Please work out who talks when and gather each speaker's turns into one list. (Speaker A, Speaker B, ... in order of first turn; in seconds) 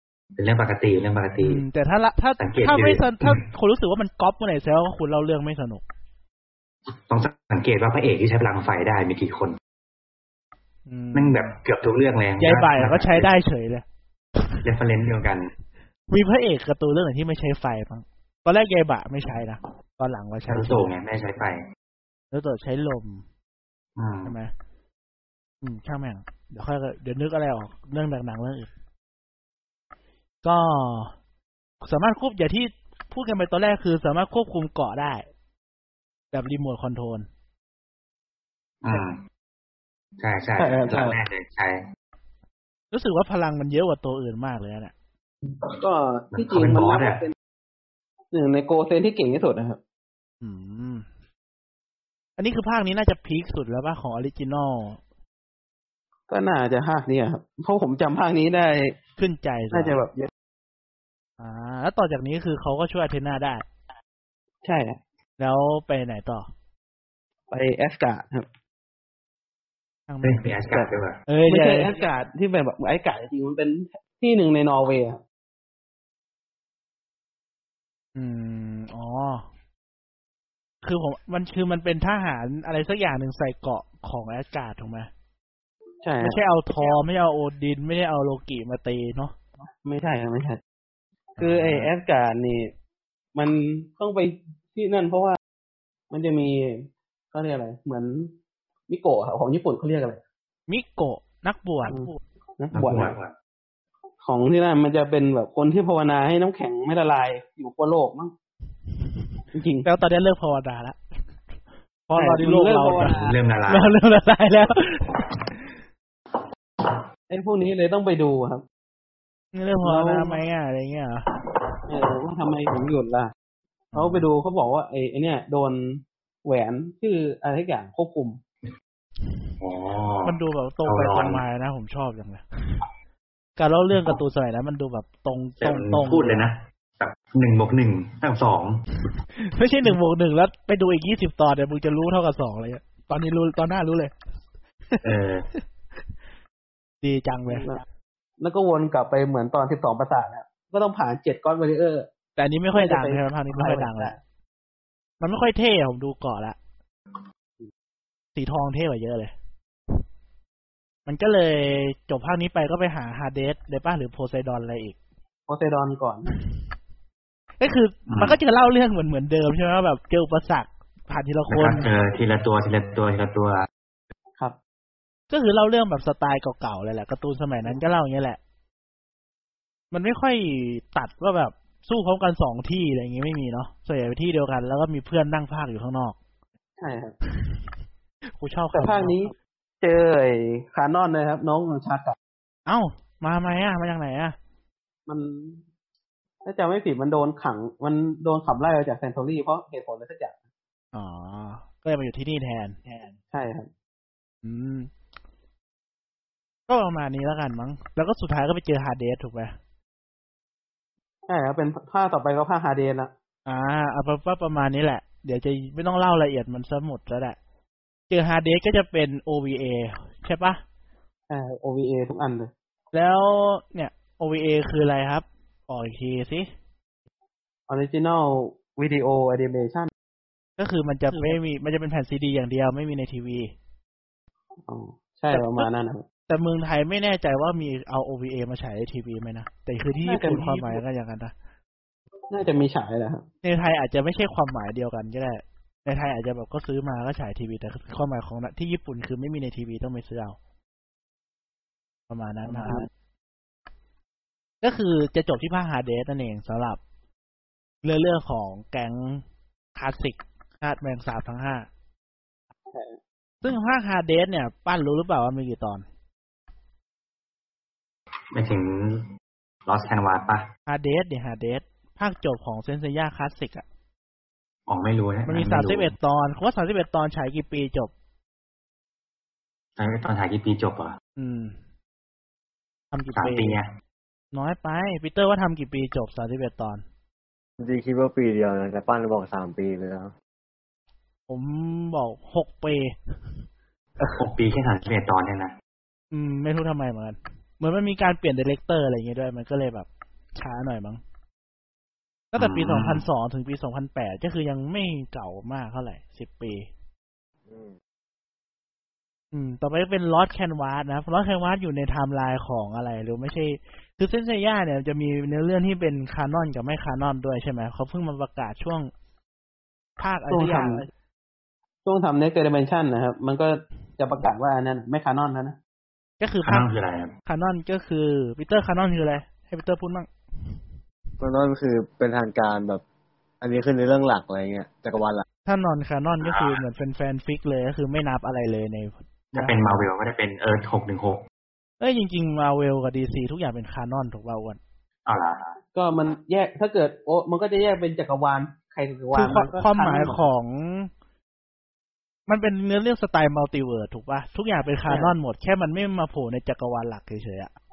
Speaker A: 0.4-1.6, 2.4-3.4, 6.9-9.6, 11.1-13.3, 14.6-15.5, 20.5-21.6, 24.0-24.4, 38.8-39.2, 40.2-41.8, 46.3-47.2, 70.2-71.2, 102.7-103.3, 113.0-113.9, 129.6-131.4, 135.6-138.8, 145.0-145.4, 168.1-168.4, 171.5-173.7, 268.3-269.1, 269.7-270.5, 274.7-275.9, 279.8-281.0, 283.2-283.7, 294.2-295.5, 302.4-303.1, 326.4-327.1, 336.2-336.6, 339.3-341.2, 345.1-345.6
Speaker B: 1.4-5.8, 10.9-11.6, 12.4-13.8, 14.4-14.7, 16.1-20.9, 22.3-23.2, 24.2-24.5, 25.6-28.7, 30.4-31.1, 31.8-35.3, 36.3-37.3, 42.9-44.9, 50.4-51.1, 52.4-55.0, 59.2-60.0, 61.4-63.6, 65.4-66.5, 70.1-71.9, 78.2-79.5, 80.8-85.1, 86.2-89.3, 91.4-91.9, 100.7-102.2, 109.8-111.0, 112.1-115.4, 119.5-121.3, 123.9-124.3, 130.2-132.8, 133.6-136.5, 139.4-144.1, 144.9-145.6, 147.0-147.8, 152.4-154.2, 155.2-156.6, 158.4-159.3, 161.1-165.0, 167.6-171.9, 175.3-178.4, 179.9-186.2, 188.4-189.3, 192.7-194.4, 200.9-203.1, 204.4-204.9, 206.7-209.6, 213.5-217.4, 218.1-220.6, 222.9-226.5, 230.6-233.5, 235.3-235.7, 236.3-241.3, 243.4-250.4, 252.1-252.9, 254.6-256.8, 257.8-259.2, 259.8-261.7, 263.4-265.8, 270.7-273.6, 275.3-277.9, 281.2-281.6, 282.9-283.6, 284.3-286.8, 291.3-292.9, 296.1-301.0, 302.3-306.7, 309.3-318.9, 320.0-320.9, 326.2-326.7, 327.3-330.1, 335.5-339.8, 341.8-344.6, 349.1-350.9, 352.3-357.5
Speaker C: 40.6-41.2, 45.6-47.3, 48.3-49.8, 56.3-59.0, 59.7-60.3, 64.6-65.0, 67.5-68.5, 71.5-75.2, 86.0-86.4, 89.8-90.6, 91.4-92.7, 93.3-95.4, 96.1-98.3, 98.9-100.2, 101.9-103.1, 104.2-108.3, 109.5-109.9, 112.2-113.3, 117.3-118.6, 119.8-120.4, 121.9-123.3, 124.0-128.4, 147.5-147.8, 148.4-152.1, 152.7-154.2, 165.5-166.3, 186.8-187.2, 188.7-192.2, 195.1-195.6, 196.4-200.3, 203.3-203.7, 211.3-213.1, 221.3-222.5, 227.7-229.9, 231.1-231.4, 234.7-236.0, 240.0-240.8, 242.3-243.3, 252.5-252.9, 262.7-263.0, 320.3-320.9, 321.9-325.6, 345.8-350.2, 354.9-355.1
Speaker D: 287.6-290.1, 307.5-307.7, 331.2-332.8, 333.4-335.2